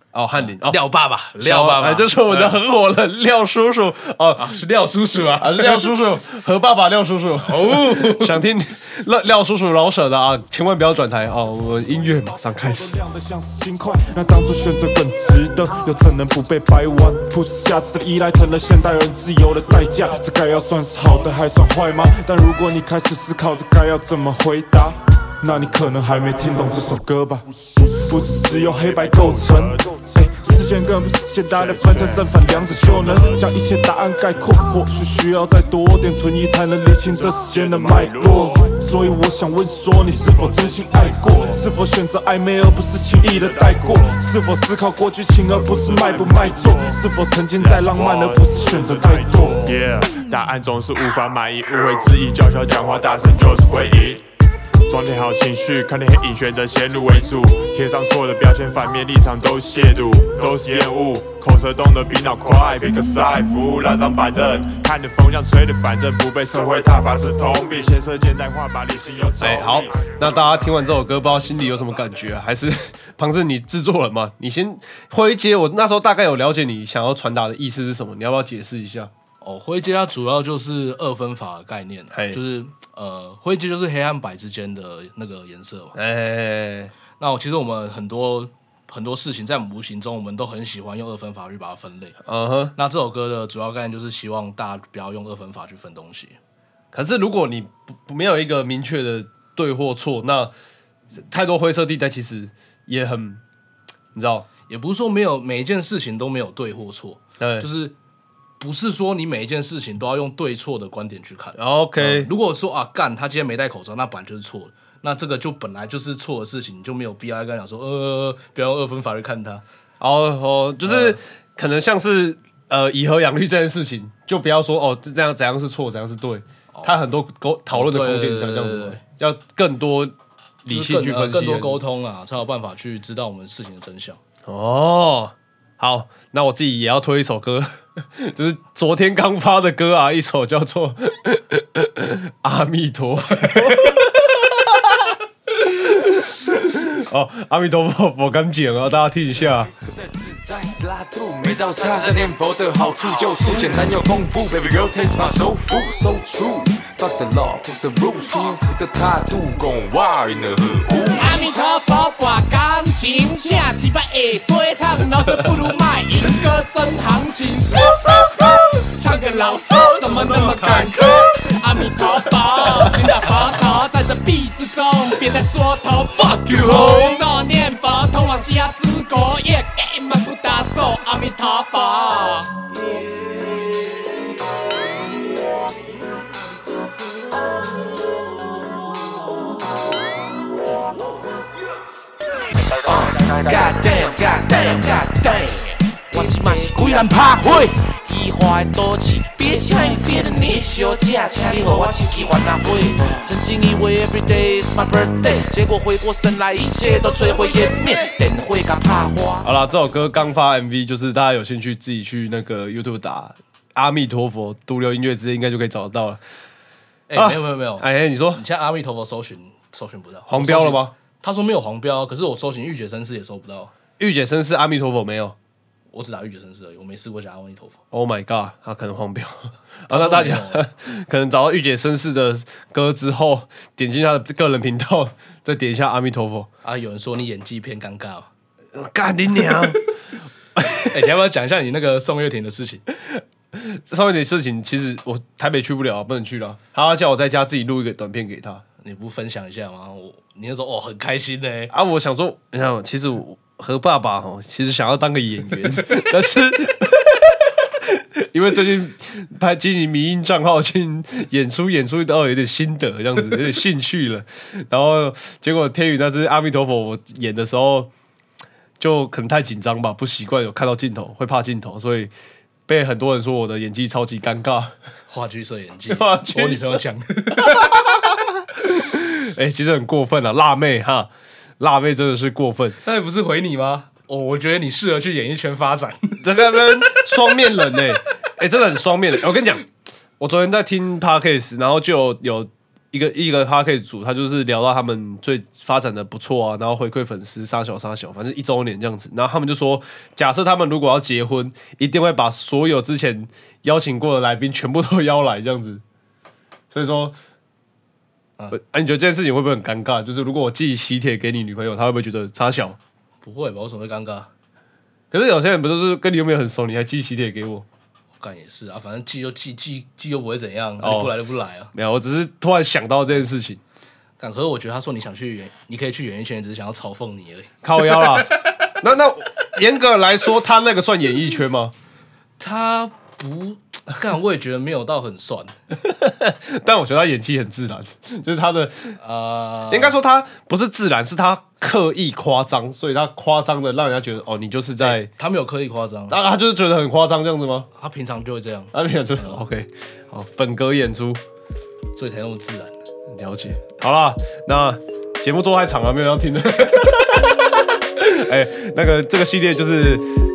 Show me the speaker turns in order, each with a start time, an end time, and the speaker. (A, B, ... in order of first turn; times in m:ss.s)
0:00.1-0:00.8 A
0:00.4-0:02.6 B
0:01.4-0:04.6 A
0:04.4-0:05.9 B
0:05.4-0:13.0 A
0:07.4-0:08.4 B
0:12.6-0:49.8 C
0:28.4-0:29.9 D
0:31.5-0:33.4 D
0:37.2-0:38.7 D
0:40.1-0:41.6 D
0:43.3-0:44.1 D
0:45.6-0:46.9 D
0:47.6-0:54.2 D
0:54.9-1:10.0 D
1:09.4-1:19.1 A
1:19.4-1:26.0 B
1:22.1-1:22.4 A
1:25.9-1:26.9 A
1:27.2-1:32.2 B
1:32.2-1:32.7 A
1:32.7-1:36.4 B
1:36.9-1:40.5 A
1:41.3-1:43.4 A
1:44.1-1:44.5 A
1:44.7-1:48.0 B
1:47.4-1:47.7 A
1:48.6-1:59.6 B
1:51.6-1:52.3 A
2:00.0-2:11.8 A
2:00.8-2:01.2 B
2:06.7-2:07.0 B
2:07.7-2:09.0 B
2:10.7-2:14.2 B
2:14.4-2:29.7 A
2:29.8-2:41.2 E
2:41.1-3:02.7 F
2:50.0-2:50.9 A
2:52.7-2:53.2 A
2:56.7-2:57.2 A
3:12.8-3:29.4 E
3:29.4-3:36.2 A
3:37.1-3:43.7 B
3:37.1-3:38.4 A
3:40.3-3:40.9 A
3:44.0-3:45.4 A
3:45.9-3:47.8 B
3:47.9-3:56.5 A
3:49.9-3:50.7 B
3:56.6-3:58.3 B
3:58.7-3:59.8 A
3:59.4-3:59.7 B
4:00.6-4:00.9 A
4:00.8-4:02.8 B
4:03.0-4:08.6 A
4:08.8-4:11.7 B
4:11.7-4:27.9 A
4:28.8-4:32.1 A
4:32.7-4:34.7 A
4:35.1-4:37.9 B
4:35.9-4:36.8 A
4:37.4-4:38.0 A
4:38.6-4:42.8 A
4:42.8-4:47.3 B
4:46.2-4:49.6 A
4:50.2-5:05.8 A
5:06.7-5:07.2 A
5:08.5-5:12.8 A
5:13.2-5:14.3 B
5:15.1-5:17.6 A
5:18.2-5:21.7 B
5:20.8-5:21.1 A
5:21.7-5:23.6 A
5:24.2-5:28.7 B
5:27.6-5:31.7 A
5:32.4-5:35.6 B
5:35.8-5:39.0 A
5:39.0-5:40.0 B
5:39.7-5:45.1 A
5:44.8-5:46.2 B
5:46.1-5:47.7 A
5:47.7-5:49.4 B
5:48.7-5:51.2 A
5:52.0-5:52.7 B
5:53.1-6:00.1 A